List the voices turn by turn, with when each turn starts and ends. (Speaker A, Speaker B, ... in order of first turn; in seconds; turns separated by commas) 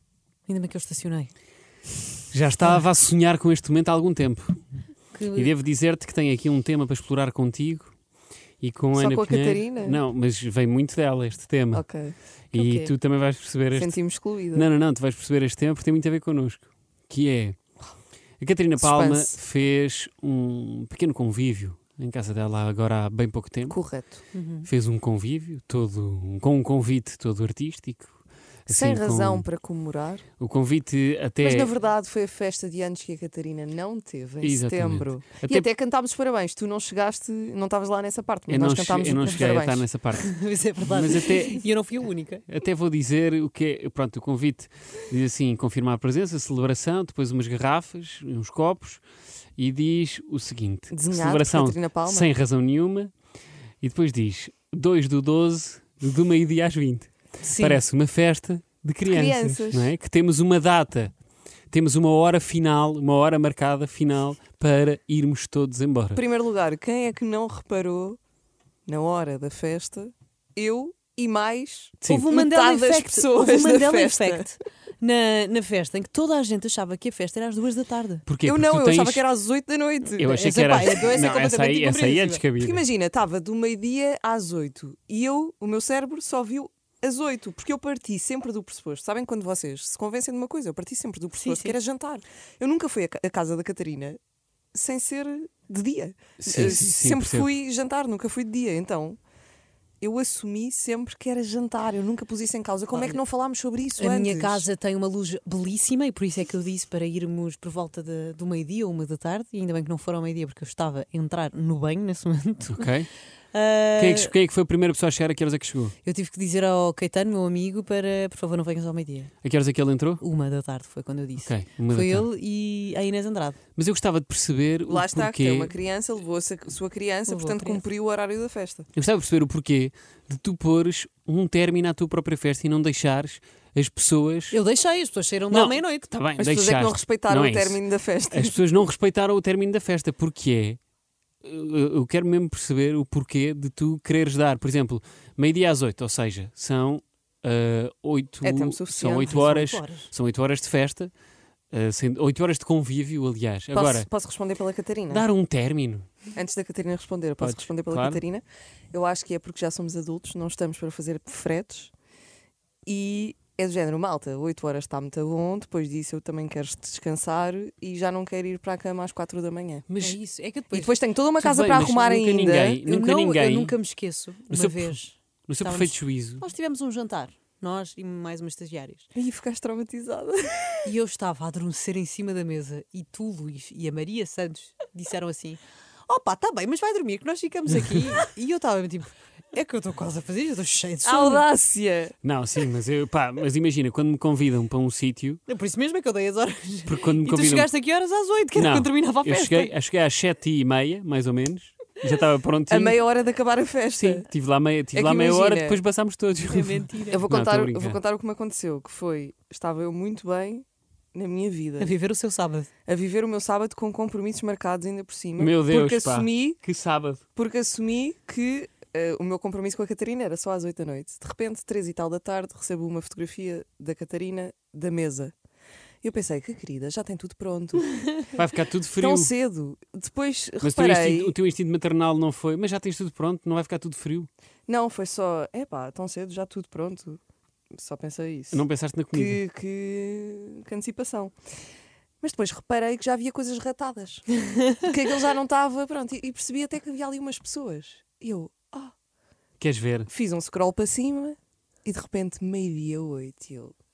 Speaker A: 0.5-1.3, Speaker B: 2.3-4.7, Speaker A: 5.1-5.5, Speaker B: 5.3-8.0, Speaker B: 8.6-17.6, Speaker C: 8.9-10.0, Speaker C: 11.7-12.9, Speaker C: 13.7-14.7, Speaker B: 18.4-23.8, Speaker C: 18.8-19.4, Speaker C: 23.7-24.2, Speaker A: 24.3-24.7, Speaker B: 24.6-29.5, Speaker C: 28.7-30.2, Speaker B: 30.4-31.7, Speaker C: 31.4-39.9, Speaker B: 34.4-35.6, Speaker B: 38.5-41.6, Speaker A: 40.2-42.4, Speaker B: 42.5-49.0, Speaker B: 49.6-53.1, Speaker C: 50.9-52.3, Speaker B: 53.8-61.1, Speaker A: 57.4-57.8, Speaker C: 59.0-59.9, Speaker B: 61.7-66.2, Speaker C: 66.1-68.2, Speaker C: 68.9-74.5, Speaker B: 72.0-72.3, Speaker A: 72.0-78.2, Speaker B: 78.2-79.2, Speaker C: 78.4-81.0, Speaker B: 80.2-82.8, Speaker A: 80.3-82.4, Speaker C: 82.6-94.2, Speaker A: 91.3-91.7, Speaker C: 94.7-99.2, Speaker B: 96.4-97.5, Speaker C: 100.0-104.7, Speaker A: 102.9-103.2, Speaker A: 104.0-114.3, Speaker B: 112.7-113.1, Speaker B: 114.0-116.0, Speaker A: 116.0-119.3, Speaker B: 119.4-120.2, Speaker A: 120.2-123.6, Speaker B: 121.4-122.3, Speaker B: 123.8-125.7, Speaker C: 124.9-128.9, Speaker A: 127.3-127.8, Speaker B: 128.9-134.6, Speaker A: 134.5-136.1, Speaker B: 135.5-140.8, Speaker C: 136.4-138.6, Speaker B: 141.4-151.1, Speaker C: 148.4-149.4, Speaker A: 149.2-150.1, Speaker B: 151.7-154.1, Speaker C: 153.7-155.2, Speaker B: 155.1-156.1, Speaker C: 156.3-161.9, Speaker B: 157.4-158.2, Speaker C: 162.8-169.9, Speaker B: 169.9-170.2, Speaker A: 170.0-171.0, Speaker C: 170.7-172.8, Speaker B: 171.4-173.8, Speaker A: 172.8-179.1, Speaker B: 174.5-176.4, Speaker C: 179.1-180.9, Speaker A: 180.8-191.4, Speaker C: 191.0-192.1, Speaker B: 192.2-195.4, Speaker A: 195.5-199.7, Speaker B: 196.8-197.7, Speaker B: 198.5-203.0, Speaker C: 202.7-204.3, Speaker B: 203.9-208.0, Speaker C: 204.9-205.8, Speaker A: 206.5-207.2, Speaker C: 207.1-211.9, Speaker A: 211.8-212.7, Speaker C: 212.9-216.6, Speaker B: 215.4-217.2, Speaker C: 217.3-225.3, Speaker C: 226.0-228.1, Speaker B: 228.3-229.3, Speaker C: 228.9-231.3, Speaker B: 230.6-234.3, Speaker C: 234.7-237.2, Speaker C: 237.7-241.3, Speaker B: 238.5-239.4, Speaker C: 242.2-248.9, Speaker B: 249.6-250.1, Speaker C: 250.1-253.7